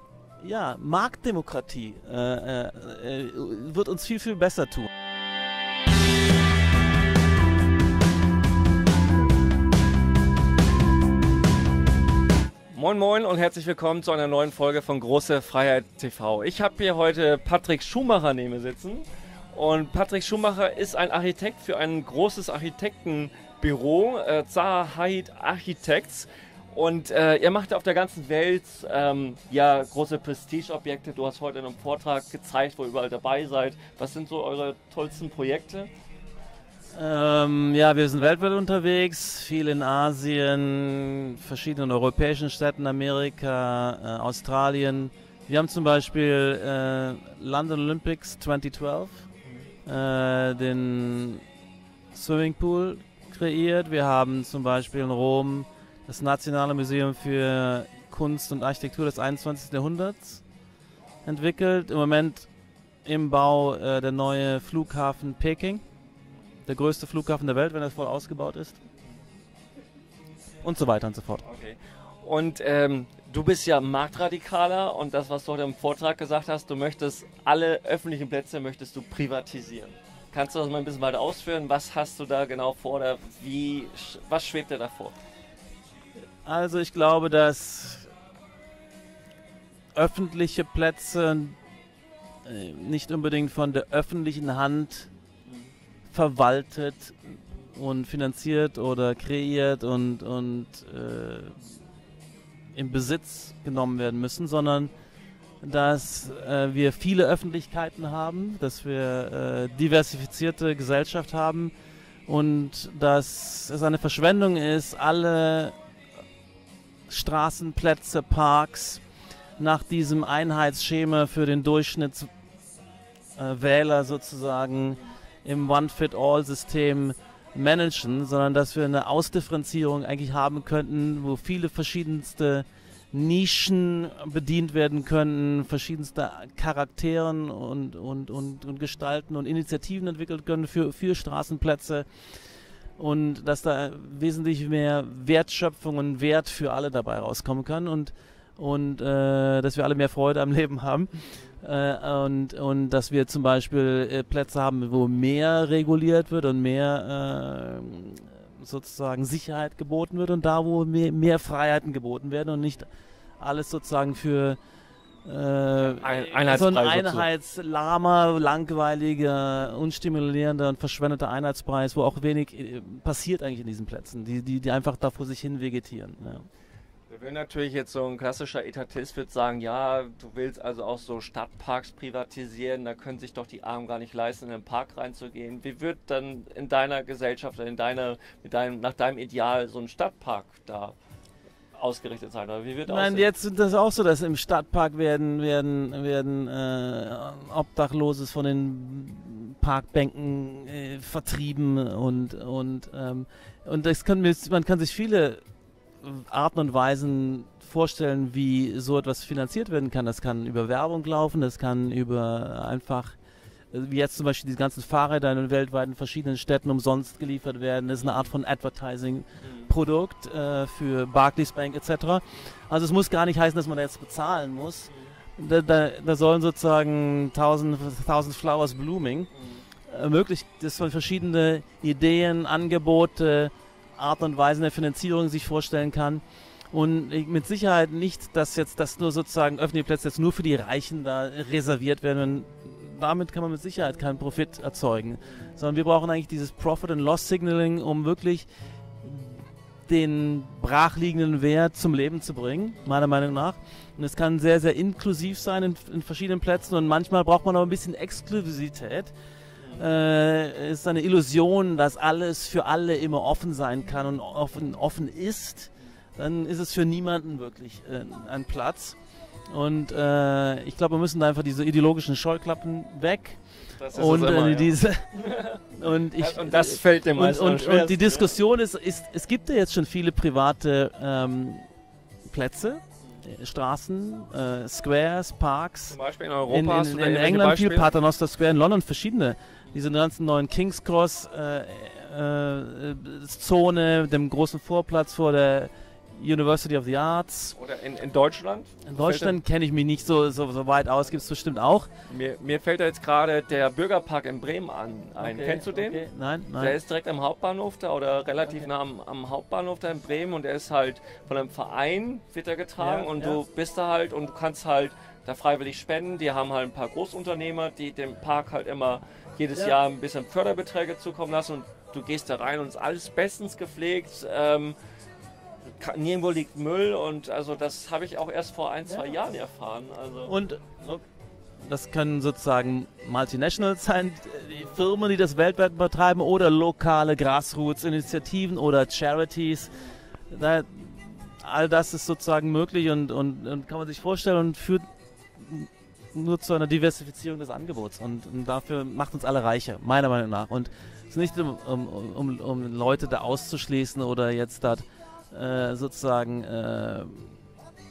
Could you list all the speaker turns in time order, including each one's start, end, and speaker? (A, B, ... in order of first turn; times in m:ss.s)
0:00.4-0:04.9 A
0:12.7-0:35.9 B
0:37.0-0:49.2 A
0:49.9-0:51.4 A
0:52.1-1:00.4 A
1:01.2-1:02.5 A
1:03.0-1:05.8 A
1:06.7-1:08.8 A
1:10.6-1:11.5 A
1:11.4-1:25.2 B
1:26.4-1:28.1 A
1:30.0-1:31.6 A
1:32.4-1:35.1 A
1:36.1-1:41.8 A
1:42.8-1:44.9 A
1:45.6-1:51.7 A
1:52.3-1:55.8 A
1:57.1-1:59.0 A
1:59.6-2:02.3 A
2:03.4-2:22.1 A
2:23.0-2:42.9 A
2:43.4-2:44.6 A
2:45.2-2:56.4 A
2:45.8-2:47.3 B
2:57.1-3:11.0 B
3:11.8-3:13.3 B
3:12.9-3:25.4 A
3:26.0-3:33.2 A
3:33.7-3:49.3 A
3:38.0-3:38.3 B
3:39.4-3:39.7 B
3:49.3-3:49.6 B
3:49.9-4:08.5 A
4:09.0-4:19.1 A
4:19.8-4:29.0 A
4:29.5-4:33.4 A
4:33.8-4:38.4 B
4:33.9-4:35.2 A
4:35.7-4:41.6 A
4:42.3-4:46.0 A
4:45.9-4:47.9 B
4:46.5-4:57.6 A
4:57.6-4:59.4 B
4:58.9-5:01.9 A
5:02.1-5:06.0 B
5:05.2-5:06.8 A
5:06.6-5:24.8 B
5:12.8-5:13.4 A
5:25.6-5:30.3 B
5:30.3-5:31.0 A
5:31.7-5:39.8 A
5:40.3-5:44.9 A
5:45.4-5:57.4 A